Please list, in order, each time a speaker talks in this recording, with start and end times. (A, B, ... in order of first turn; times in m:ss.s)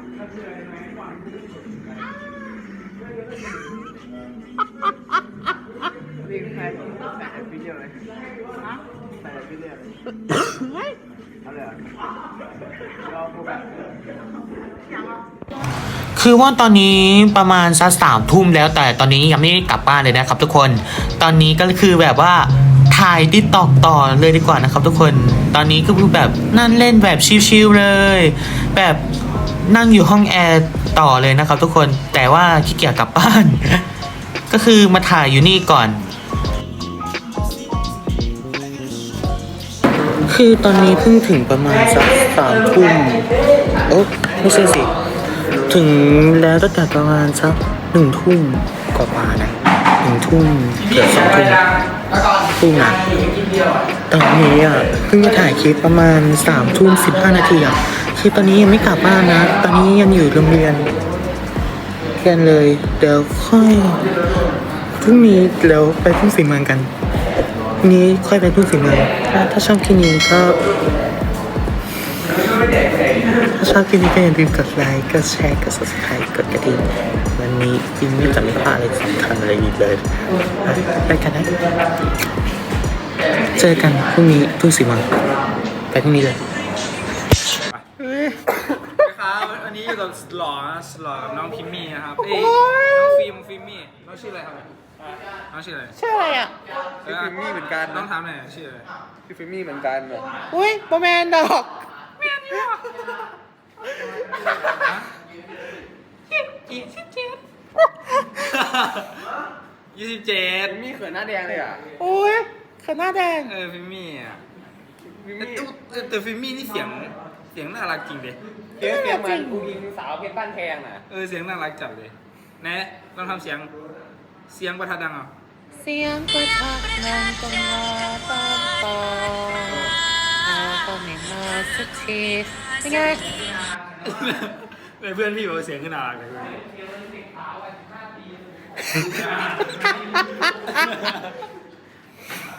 0:16.2-0:29.0 A
0:29.6-0:33.8 A
0:34.5-0:36.0 A
0:40.3-0:43.3 A
0:43.9-0:44.9 A
0:45.7-0:51.7 A
0:52.5-0:53.1 A
0:54.1-1:00.9 A
1:02.2-1:04.1 A
1:04.9-1:06.9 A
1:07.8-1:10.6 A
1:13.4-1:21.6 A
1:23.6-1:25.1 A
1:25.9-1:26.6 A
1:28.0-1:28.8 A
1:29.0-1:34.7 B
1:32.2-1:33.2 A
1:35.5-1:36.0 B
1:36.0-1:36.6 A
1:37.0-1:38.9 B
1:39.3-1:40.3 C
1:40.3-1:41.9 A
1:42.2-1:43.1 B
1:44.7-1:45.1 B
1:46.5-1:47.4 A
1:48.5-1:49.2 B
1:49.9-1:50.9 B
1:50.8-1:51.8 C
1:51.8-1:53.6 A
1:53.5-1:54.4 B
1:55.4-1:58.4 B
1:58.8-1:59.8 A
1:59.8-2:01.0 C
2:01.1-2:03.7 B
2:04.5-2:05.3 B
2:05.8-2:13.6 A
2:14.0-2:16.7 B
2:20.8-2:21.0 B